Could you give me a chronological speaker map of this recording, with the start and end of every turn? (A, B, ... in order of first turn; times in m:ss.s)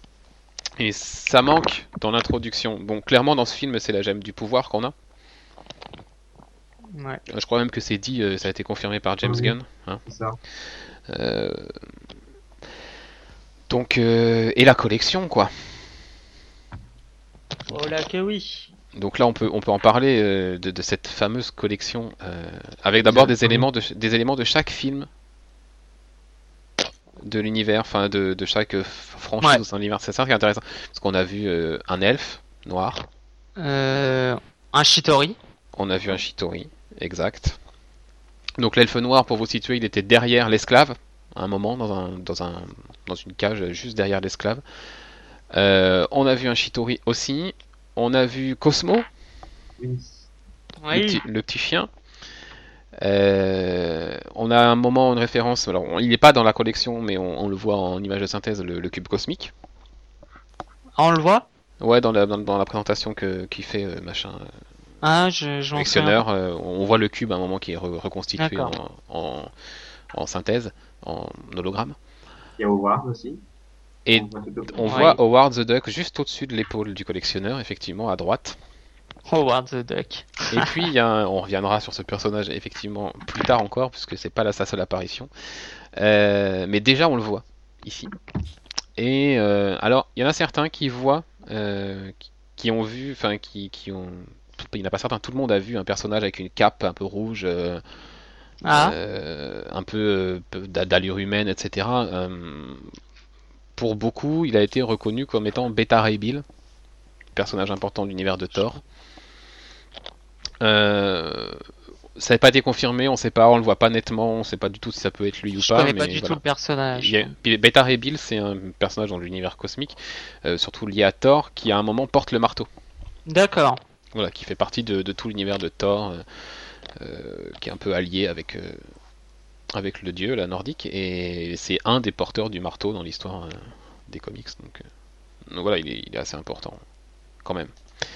0:00.8-0:04.9 A
0:06.9-0:07.2 B
0:07.3-0:10.0 A
0:09.2-0:09.5 C
0:10.0-0:10.4 C
0:11.1-0:11.8 A
0:13.7-0:15.8 A
0:17.7-0:18.7 B
0:18.9-0:25.1 A
0:23.0-0:23.6 B
0:27.2-0:33.0 A
0:33.6-0:35.4 B
0:35.7-0:37.6 A
0:38.6-0:44.6 A
0:45.5-0:49.0 A
0:49.8-0:50.2 C
0:50.8-0:51.2 B
0:50.9-0:51.9 A
0:53.0-0:59.5 A
1:01.0-1:01.5 B
1:01.8-1:04.5 A
1:05.0-1:06.2 B
1:05.8-1:09.5 A
1:08.4-1:08.7 B
1:10.1-1:12.0 A
1:12.6-1:13.4 C
1:14.0-1:18.6 A
1:14.1-1:15.2 C
1:14.9-1:15.1 B
1:19.3-1:20.8 B
1:20.5-1:25.3 A
1:25.9-1:28.1 A
1:29.0-1:37.8 A
1:38.6-1:39.0 B
1:38.7-1:42.9 A
1:43.8-1:46.4 A
1:47.3-1:48.8 A
1:50.6-1:51.6 A
1:52.2-1:56.4 A
1:55.6-1:57.3 B
1:56.9-2:02.7 A
2:03.3-2:03.8 B
2:04.1-2:08.9 A
2:09.7-2:14.8 A
2:15.5-2:16.8 A
2:17.4-2:17.7 A